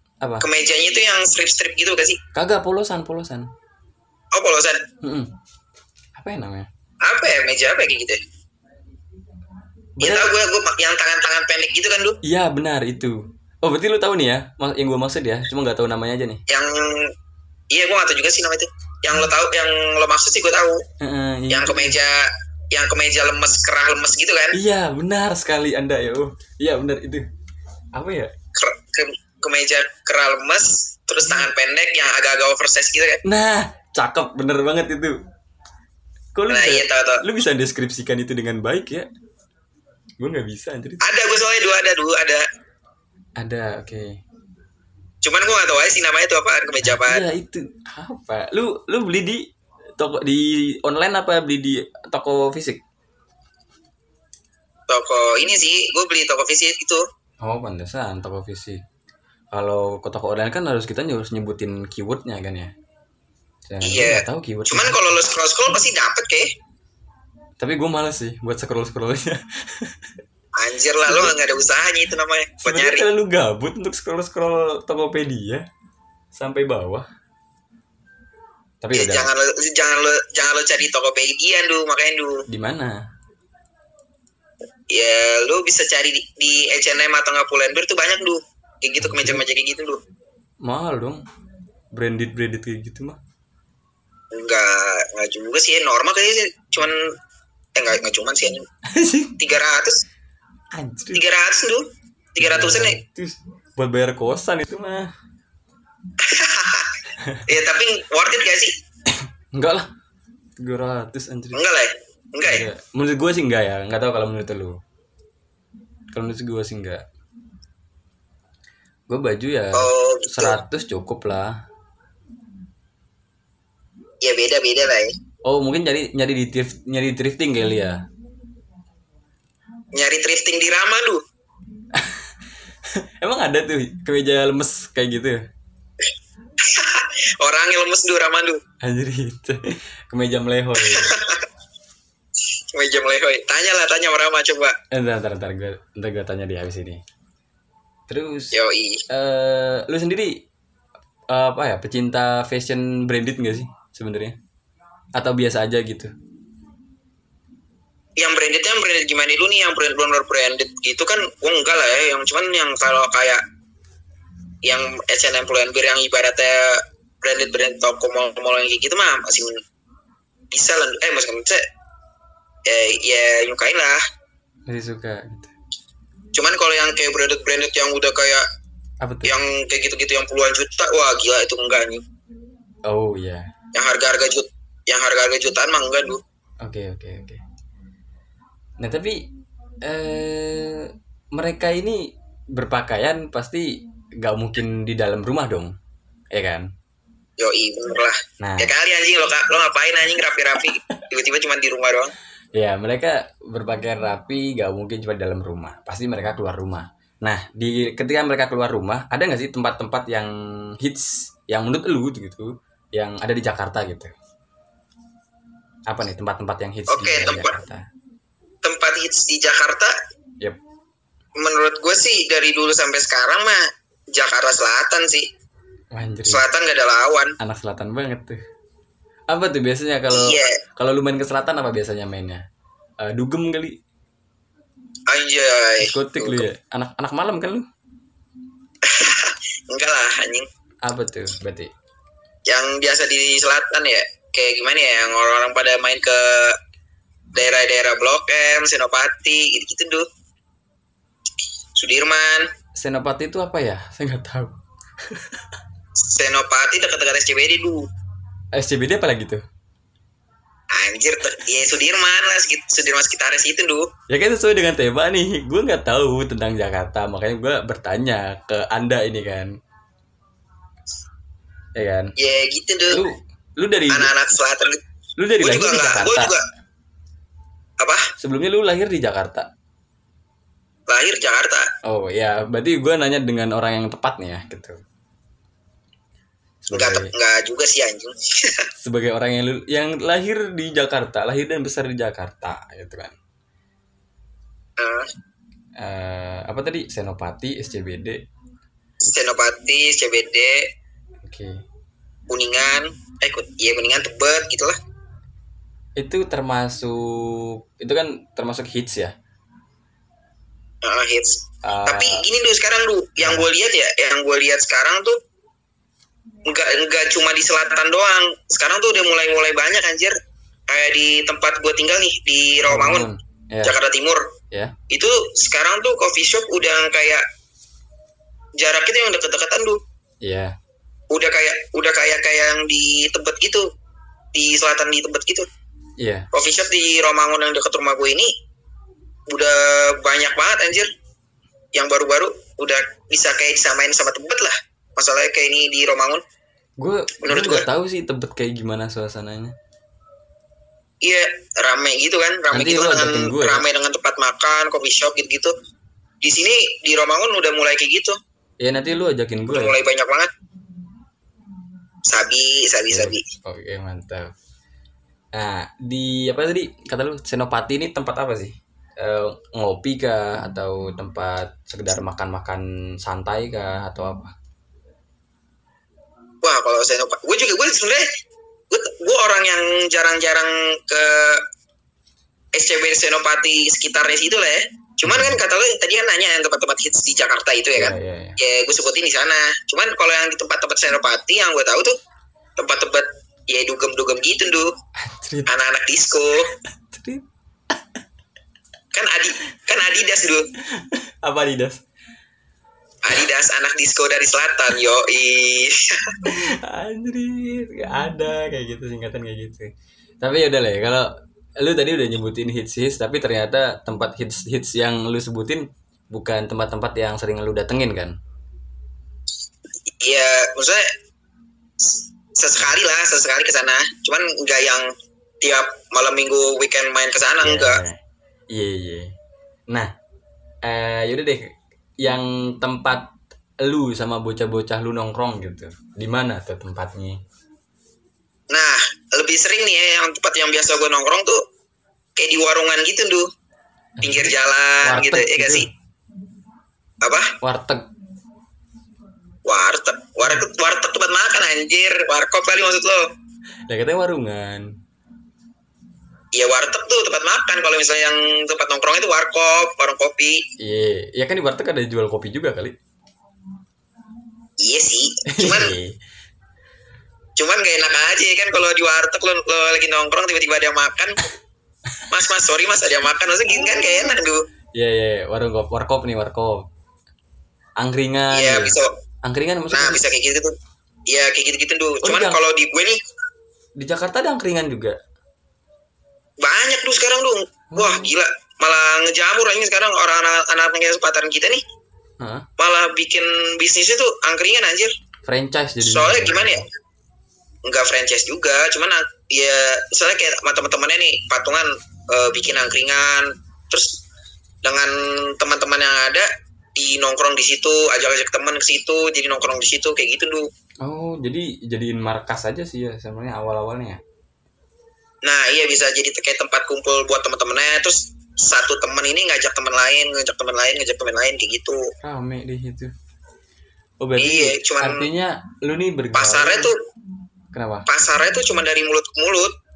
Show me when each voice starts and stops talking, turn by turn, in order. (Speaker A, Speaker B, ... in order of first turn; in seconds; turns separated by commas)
Speaker A: 0.4-2.2, Speaker B: 2.3-3.5, Speaker A: 4.3-4.8, Speaker B: 5.0-5.3, Speaker B: 6.2-6.7, Speaker A: 7.0-8.2, Speaker B: 10.0-10.3, Speaker A: 10.0-12.2, Speaker B: 12.2-16.4, Speaker A: 16.5-17.1, Speaker A: 17.7-20.8, Speaker B: 21.0-22.0, Speaker A: 21.5-24.6, Speaker B: 24.5-27.3, Speaker B: 27.9-28.3, Speaker A: 28.5-33.2, Speaker B: 33.2-35.2, Speaker B: 36.3-39.1, Speaker A: 36.5-37.2, Speaker B: 40.2-41.0, Speaker A: 41.0-42.4, Speaker B: 43.4-44.2, Speaker A: 45.2-47.2, Speaker B: 46.8-49.5, Speaker B: 50.0-52.8, Speaker A: 54.9-57.0, Speaker B: 57.4-58.8, Speaker B: 59.5-62.7, Speaker B: 63.7-65.0, Speaker A: 63.8-66.5, Speaker B: 67.6-70.1, Speaker A: 70.6-73.0, Speaker B: 71.0-71.3, Speaker B: 72.6-75.7, Speaker B: 76.3-77.1, Speaker B: 78.8-79.3, Speaker A: 78.9-82.4, Speaker B: 82.5-83.0, Speaker A: 84.9-90.0, Speaker B: 89.0-89.4, Speaker B: 90.6-91.2, Speaker B: 91.9-93.2, Speaker A: 94.3-97.0, Speaker A: 97.8-98.6, Speaker B: 98.8-99.3, Speaker A: 99.4-100.0, Speaker B: 100.7-101.2, Speaker A: 101.1-101.8, Speaker A: 102.3-103.0, Speaker B: 102.4-105.1, Speaker A: 106.2-108.7, Speaker B: 107.2-107.4, Speaker B: 109.1-109.9, Speaker B: 110.6-111.6, Speaker A: 111.5-112.6, Speaker B: 112.4-114.8, Speaker B: 116.1-117.0, Speaker B: 119.1-121.5, Speaker A: 119.7-120.6, Speaker A: 124.2-125.1, Speaker B: 125.4-128.0, Speaker A: 129.9-131.2, Speaker B: 131.9-132.3, Speaker B: 132.8-135.4, Speaker A: 136.6-138.6, Speaker B: 138.8-141.1, Speaker A: 140.8-141.4, Speaker A: 142.7-144.8, Speaker B: 144.9-147.0, Speaker B: 148.1-148.6, Speaker A: 148.5-149.0, Speaker B: 149.1-150.4, Speaker B: 151.3-154.4, Speaker B: 155.1-156.1, Speaker A: 158.2-163.4, Speaker A: 164.6-169.6, Speaker A: 170.5-171.6, Speaker A: 172.7-174.0, Speaker B: 174.7-175.5, Speaker A: 176.3-178.4, Speaker B: 179.0-179.3, Speaker A: 179.2-182.0, Speaker B: 182.8-183.5, Speaker A: 183.7-186.2, Speaker B: 186.6-187.4, Speaker B: 188.8-189.3, Speaker B: 189.8-195.7, Speaker B: 196.3-196.7, Speaker A: 197.4-202.1, Speaker B: 198.4-198.7, Speaker B: 202.5-214.1, Speaker B: 215.9-217.8, Speaker A: 216.9-217.5, Speaker A: 218.6-219.9, Speaker A: 221.4-225.3, Speaker B: 225.9-226.4, Speaker A: 226.3-227.3, Speaker B: 227.4-228.4, Speaker B: 229.3-232.4, Speaker A: 230.1-230.6, Speaker B: 233.0-233.8, Speaker A: 235.1-236.4, Speaker B: 235.8-237.7, Speaker A: 238.8-240.5, Speaker B: 240.8-241.7, Speaker A: 242.5-246.6, Speaker A: 247.3-250.1, Speaker A: 251.8-252.5, Speaker B: 252.8-255.4, Speaker A: 256.0-257.9, Speaker B: 258.5-259.4, Speaker A: 260.7-263.9, Speaker B: 264.1-269.5, Speaker B: 271.8-272.1, Speaker A: 272.2-273.0, Speaker B: 272.9-274.1, Speaker A: 273.9-274.8, Speaker B: 275.2-276.3, Speaker A: 275.4-276.4, Speaker A: 277.8-278.1, Speaker B: 278.2-279.5, Speaker A: 280.9-281.7, Speaker B: 281.8-284.8, Speaker B: 286.6-287.1, Speaker A: 286.7-288.7, Speaker B: 288.8-293.1, Speaker A: 294.8-295.1, Speaker B: 295.8-298.2, Speaker A: 299.0-300.6, Speaker B: 301.2-301.6, Speaker A: 302.3-304.8, Speaker B: 306.0-309.1, Speaker A: 310.8-315.2, Speaker B: 311.6-312.2, Speaker B: 313.2-313.5, Speaker A: 316.5-320.1, Speaker A: 320.7-323.1, Speaker B: 322.7-323.8, Speaker A: 323.6-324.3, Speaker A: 324.9-327.2, Speaker A: 328.6-329.8, Speaker B: 330.2-330.5, Speaker A: 331.1-333.7, Speaker A: 334.3-335.5, Speaker B: 336.0-336.3, Speaker A: 336.3-338.3, Speaker A: 339.3-340.9, Speaker A: 341.7-346.2, Speaker B: 346.8-349.5, Speaker A: 347.2-347.7, Speaker A: 351.0-355.5, Speaker B: 352.5-353.6, Speaker A: 356.2-358.2, Speaker B: 358.6-359.8, Speaker A: 359.5-360.3, Speaker A: 362.1-363.2, Speaker B: 362.9-364.3, Speaker B: 365.3-374.3, Speaker A: 376.4-378.1, Speaker A: 378.7-381.4, Speaker A: 382.5-391.9, Speaker B: 385.0-385.4, Speaker B: 387.8-388.4, Speaker A: 392.6-394.7, Speaker B: 395.0-395.5, Speaker A: 395.5-396.5, Speaker B: 396.6-398.0, Speaker A: 398.9-400.5, Speaker B: 400.7-401.8, Speaker A: 403.0-406.2, Speaker B: 406.2-418.1, Speaker A: 420.0-420.9, Speaker A: 421.8-424.9, Speaker A: 425.4-427.8, Speaker B: 427.4-428.0, Speaker B: 428.5-429.1, Speaker B: 430.6-437.2, Speaker A: 438.5-441.4, Speaker A: 442.1-443.3, Speaker B: 444.0-445.7, Speaker A: 444.0-445.7, Speaker A: 447.0-447.3, Speaker B: 447.4-447.8, Speaker A: 449.4-453.0, Speaker B: 453.7-454.7, Speaker A: 456.3-460.4, Speaker B: 460.6-462.8, Speaker A: 464.6-465.7, Speaker B: 465.3-466.0, Speaker A: 467.4-471.2, Speaker A: 472.1-474.4, Speaker B: 474.7-476.6, Speaker B: 477.8-480.0, Speaker A: 478.3-478.9, Speaker A: 479.7-480.5, Speaker A: 481.1-483.0, Speaker B: 482.0-482.4, Speaker B: 483.8-485.0, Speaker A: 486.4-491.6, Speaker B: 487.7-488.1, Speaker B: 492.2-492.4, Speaker A: 492.6-494.9, Speaker B: 495.2-496.6, Speaker A: 495.8-496.6, Speaker A: 497.6-504.0, Speaker A: 504.6-510.5, Speaker B: 510.8-514.0, Speaker A: 515.2-521.9, Speaker B: 522.0-522.9, Speaker B: 524.0-526.7, Speaker A: 524.2-525.0, Speaker A: 526.1-526.7, Speaker B: 527.5-527.9, Speaker A: 527.9-529.5